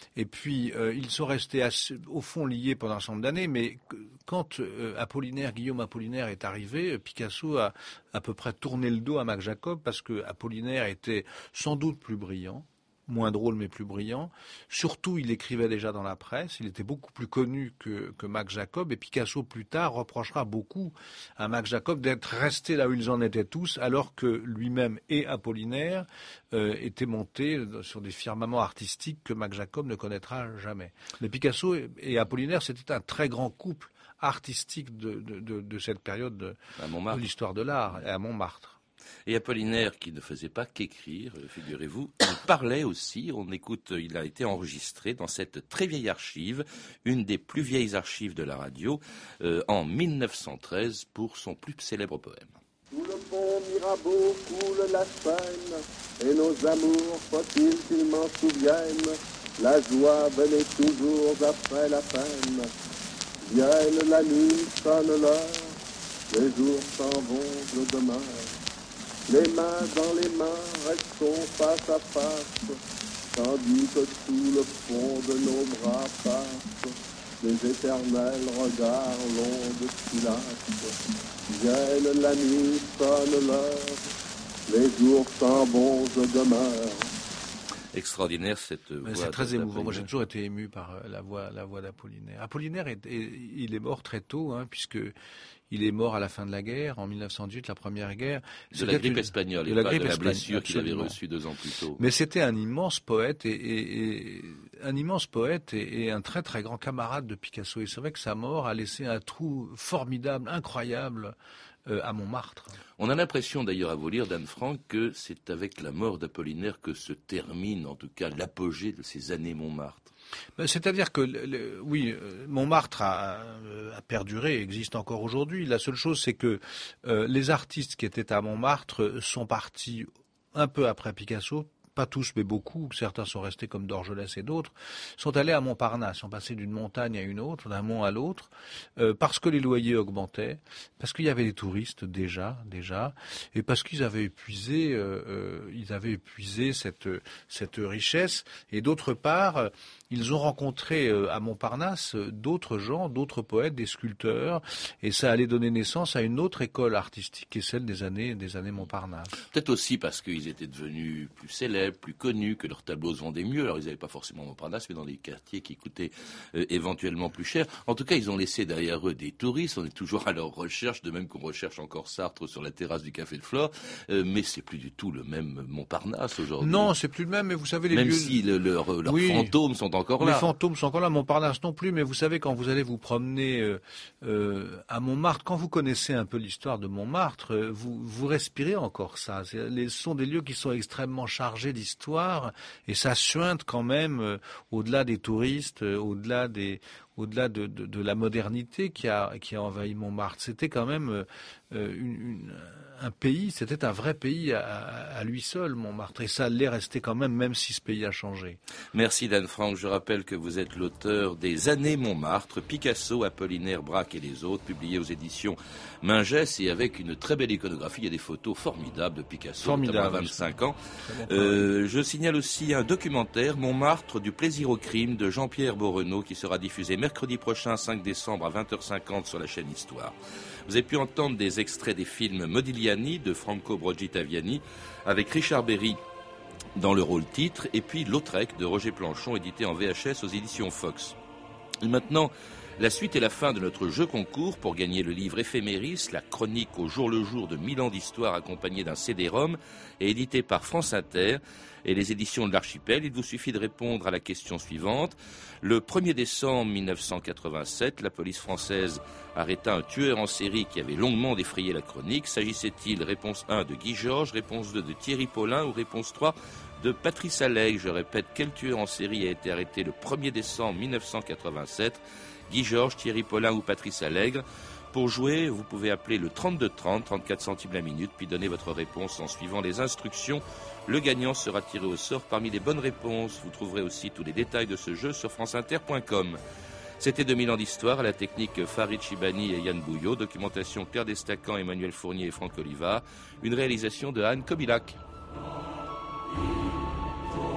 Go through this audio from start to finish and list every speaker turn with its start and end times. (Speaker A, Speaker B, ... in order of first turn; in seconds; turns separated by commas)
Speaker A: 0.1-36.6, Speaker B: 36.8-37.2, Speaker A: 37.1-38.8, Speaker B: 39.2-52.6, Speaker C: 52.9-62.7, Speaker C: 63.4-65.7, Speaker C: 66.3-68.5, Speaker C: 69.3-72.8, Speaker C: 73.3-80.9, Speaker C: 81.5-84.0, Speaker C: 84.7-87.1, Speaker B: 87.9-90.1, Speaker A: 89.0-95.1, Speaker A: 95.7-101.2, Speaker B: 98.7-102.0, Speaker A: 102.0-111.3, Speaker A: 111.9-112.8, Speaker B: 113.0-120.1, Speaker A: 120.6-159.4, Speaker B: 159.5-176.9, Speaker A: 176.6-178.4, Speaker B: 177.9-180.5, Speaker A: 179.0-179.5, Speaker A: 180.2-208.6, Speaker B: 208.9-236.0, Speaker A: 219.6-221.7, Speaker B: 236.8-241.2, Speaker B: 241.8-286.4, Speaker B: 287.0-295.0